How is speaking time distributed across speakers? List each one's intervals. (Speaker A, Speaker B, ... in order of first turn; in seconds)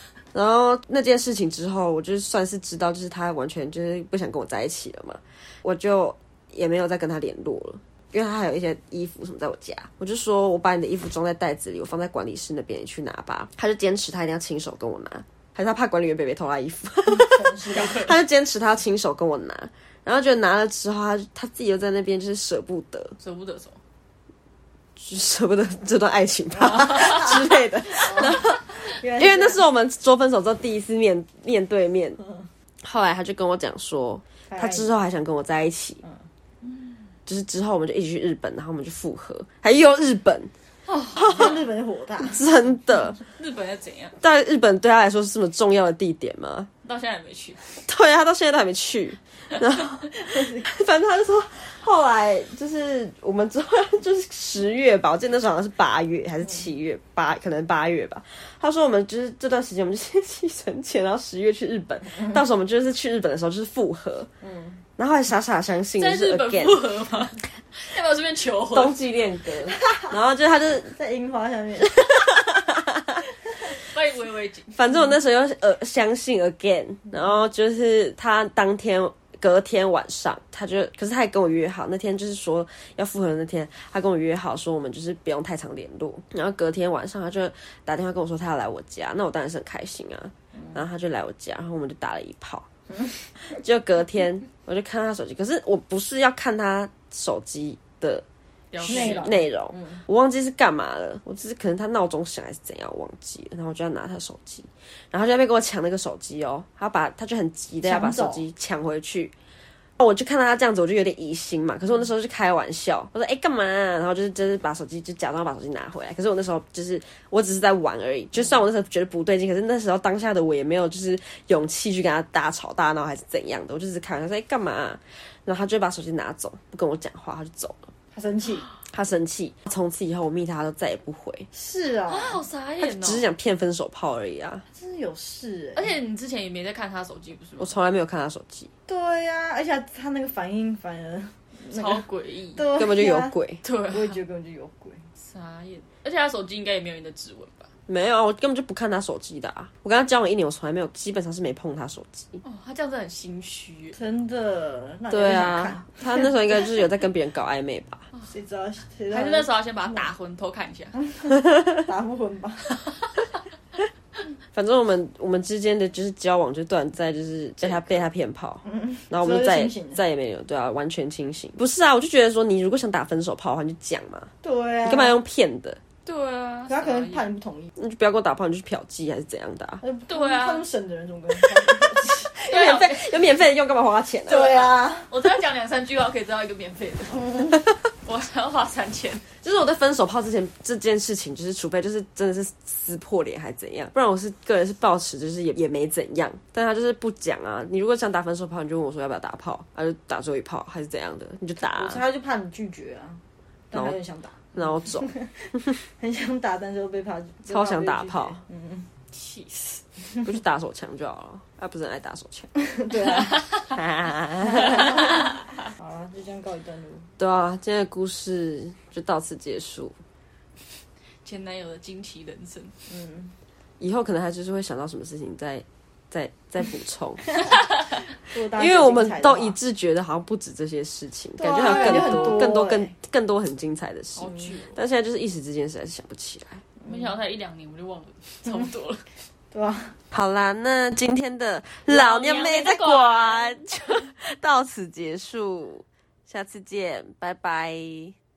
Speaker A: 0.3-23.2, 25.0-32.2, 32.8-36.0, 37.3-40.5, 41.2-41.6, 42.3-43.2, 44.2-46.7, 47.9-64.3, 65.0-66.8, 68.7-71.0, 72.0-73.2, 74.8-92.7, 93.3-98.2, 98.8-109.3, 110.0-127.9, 128.9-131.5, 132.8-134.6, 137.6-138.7, 142.8-143.6, 147.9-152.4, 155.1-158.1, 164.5-174.3, 174.8-175.8, 177.8-179.8, 182.0-184.6, 189.4-202.0, 204.6-205.1, 207.5-208.4, 210.2-212.5, 213.7-215.1, 217.2-219.9, 223.8-227.3, 228.5-236.6, 240.1-248.2
Speaker B: 17.2-18.0, 28.0-29.6, 34.5-34.9, 41.2-42.4, 64.4-64.8, 71.0-72.0, 98.8-99.4, 107.8-108.5, 128.1-128.7, 131.5-132.4, 134.7-136.0, 138.9-142.0, 142.6-143.3, 143.9-145.0, 153.9-156.3, 158.3-160.1, 161.0-162.7, 168.7-170.0, 174.4-175.2, 176.7-177.7, 179.8-182.3, 184.3-185.1, 201.6-208.9, 212.6-213.5, 214.7-215.0, 215.8-217.1, 222.9-223.3, 228.3-229.6, 231.4-232.9, 236.8-237.1, 239.5-239.9
Speaker C: 17.7-18.2, 23.2-23.8, 26.9-27.2, 40.9-41.5, 43.2-44.2, 46.8-47.8, 66.0-69.0, 73.8-74.8, 98.7-99.4, 132.1-133.3, 135.8-137.8, 141.6-142.7, 143.6-144.2, 145.2-147.7, 152.4-154.0, 159.1-161.0, 167.6-168.0, 176.1-177.3, 180.1-180.7, 182.5-183.2, 184.3-187.2, 188.1-189.3, 209.1-209.8, 213.1-213.6, 221.2-222.7, 231.6-232.5, 234.2-234.8, 236.9-239.1, 241.9-243.6